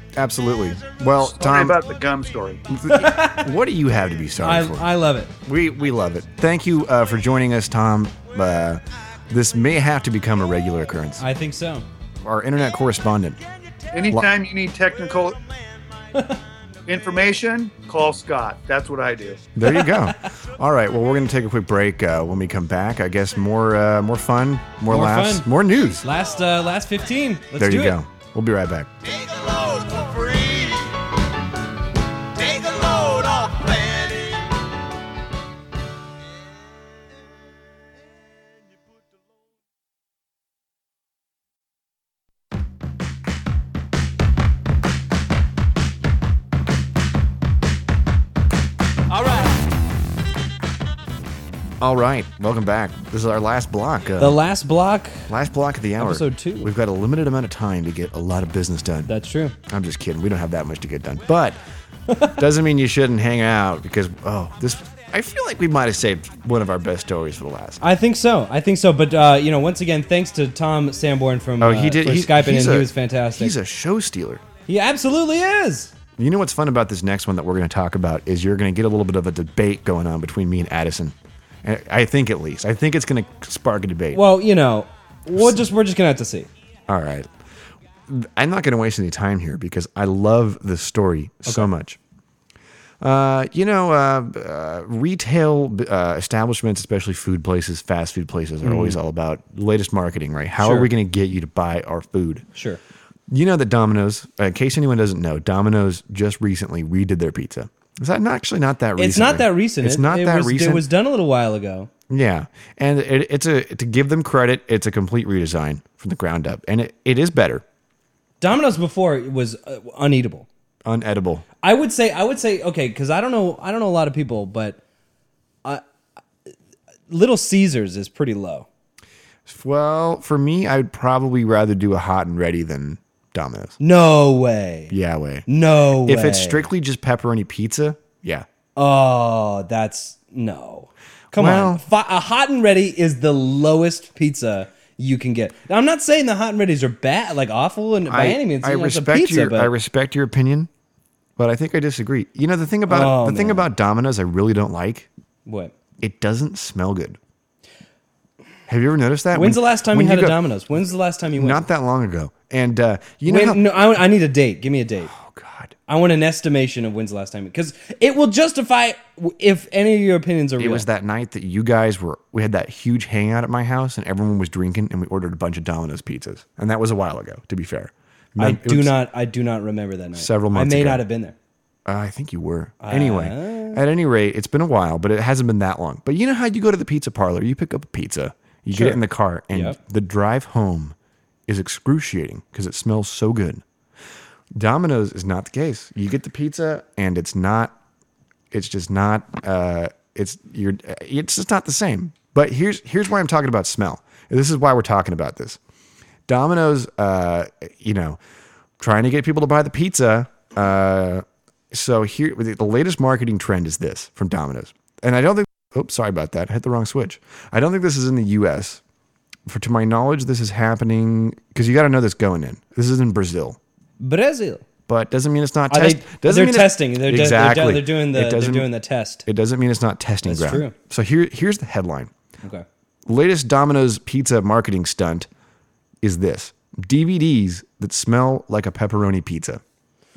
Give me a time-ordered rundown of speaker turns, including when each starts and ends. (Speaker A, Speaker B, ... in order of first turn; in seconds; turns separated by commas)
Speaker A: 0.2-1.8, Speaker B: 1.2-2.6, Speaker A: 2.7-4.9, Speaker C: 2.9-3.5, Speaker C: 4.4-5.3, Speaker A: 5.4-11.2, Speaker C: 11.2-11.9, Speaker A: 12.2-13.4, Speaker B: 13.9-15.4, Speaker C: 16.1-16.4, Speaker B: 16.9-19.4, Speaker A: 19.6-26.1, Speaker C: 19.7-20.1, Speaker C: 24.9-25.5, Speaker C: 26.0-28.0, Speaker A: 27.6-28.9, Speaker D: 29.1-30.9, Speaker D: 32.4-34.4, Speaker A: 51.8-54.4, Speaker C: 54.2-55.3, Speaker A: 55.3-59.1, Speaker C: 56.0-56.7, Speaker C: 59.1-59.6, Speaker A: 59.7-61.6, Speaker C: 62.1-62.4, Speaker A: 62.4-67.8, Speaker C: 67.8-73.5, Speaker A: 71.6-74.4, Speaker C: 74.7-75.9, Speaker A: 76.2-84.2, Speaker C: 84.1-86.5, Speaker A: 85.4-85.6, Speaker A: 86.9-87.3, Speaker A: 88.1-92.0, Speaker A: 93.0-102.5, Speaker C: 98.6-99.0, Speaker C: 100.6-100.9, Speaker C: 102.5-102.8, Speaker A: 103.3-110.8, Speaker C: 109.0-111.9, Speaker A: 112.1-117.6, Speaker C: 118.4-120.5, Speaker A: 120.8-121.5, Speaker C: 121.6-124.8, Speaker C: 127.1-128.7, Speaker A: 129.5-133.8, Speaker C: 133.8-134.9, Speaker A: 134.9-135.5, Speaker C: 135.5-136.7, Speaker A: 136.0-138.5, Speaker C: 138.8-149.7, Speaker A: 141.3-141.8, Speaker A: 148.1-150.7, Speaker A: 151.4-155.1, Speaker C: 152.9-153.7, Speaker C: 155.5-155.7, Speaker A: 156.0-157.2, Speaker A: 158.7-160.4, Speaker C: 159.3-161.6, Speaker A: 161.3-163.6, Speaker C: 163.2-165.1, Speaker A: 165.1-165.8, Speaker C: 165.9-170.9, Speaker A: 170.6-178.9, Speaker C: 178.4-181.4, Speaker A: 180.2-181.0, Speaker A: 181.9-190.9, Speaker C: 182.8-183.8, Speaker C: 188.7-189.0, Speaker C: 189.5-189.8, Speaker A: 191.5-193.6, Speaker A: 194.6-197.8, Speaker A: 198.5-205.6, Speaker A: 206.3-208.2, Speaker A: 208.8-218.8, Speaker A: 219.5-223.6, Speaker C: 224.0-224.7, Speaker A: 224.9-228.7, Speaker C: 225.7-229.3, Speaker A: 229.3-232.1, Speaker C: 230.3-230.8, Speaker A: 233.1-235.3, Speaker A: 236.0-239.6